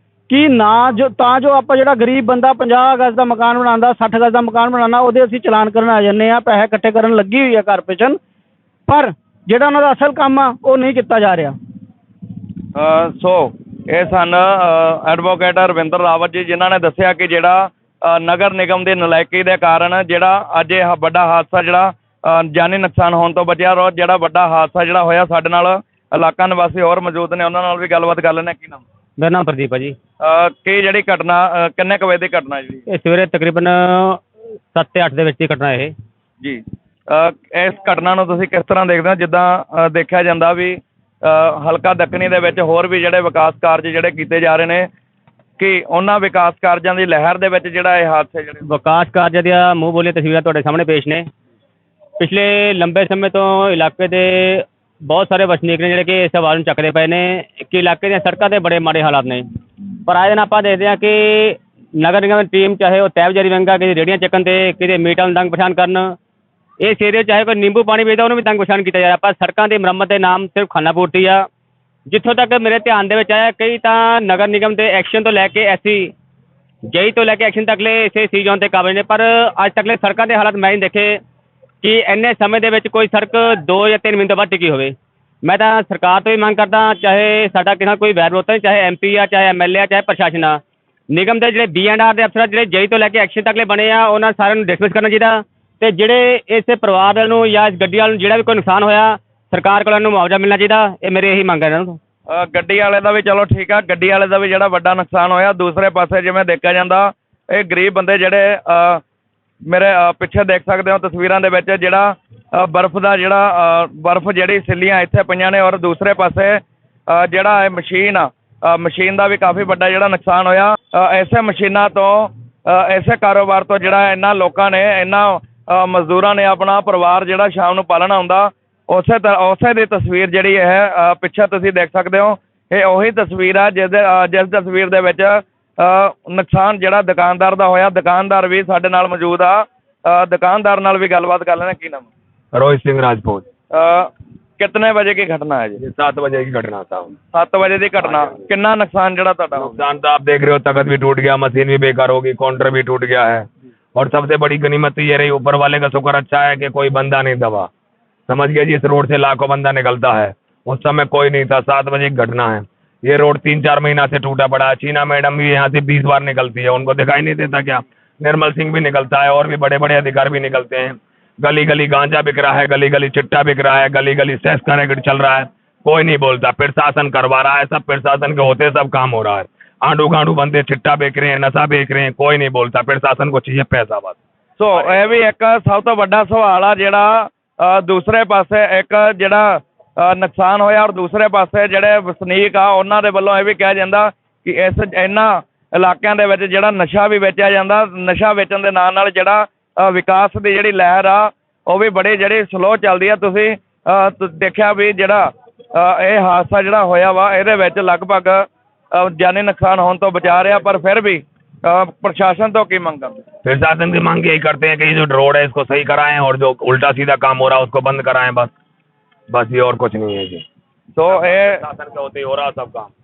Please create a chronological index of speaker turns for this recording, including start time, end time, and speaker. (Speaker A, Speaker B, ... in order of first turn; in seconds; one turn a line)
Speaker A: 0.3-8.2
Speaker A: 8.9-11.6
Speaker B: 12.8-28.8
Speaker C: 29.2-30.0
Speaker B: 30.2-32.8
Speaker C: 32.9-34.2
Speaker C: 34.7-35.9
Speaker B: 36.4-44.9
Speaker B: 45.6-48.6
Speaker C: 48.7-51.3
Speaker C: 52.2-59.5
Speaker C: 60.0-66.2
Speaker C: 66.8-71.5
Speaker C: 72.1-76.1
Speaker C: 76.9-81.2
Speaker C: 81.8-102.0
Speaker B: 102.3-109.0
Speaker B: 109.7-142.1
Speaker D: 142.5-143.5
Speaker B: 143.7-145.8
Speaker D: 145.8-147.2
Speaker B: 147.3-149.8
Speaker D: 148.0-148.4
Speaker D: 149.6-157.7
Speaker D: 158.3-184.2
Speaker B: 184.6-213.2
Speaker D: 213.4-218.5
Speaker D: 219.3-220.4
Speaker B: 220.9-221.6
Speaker D: 221.1-222.9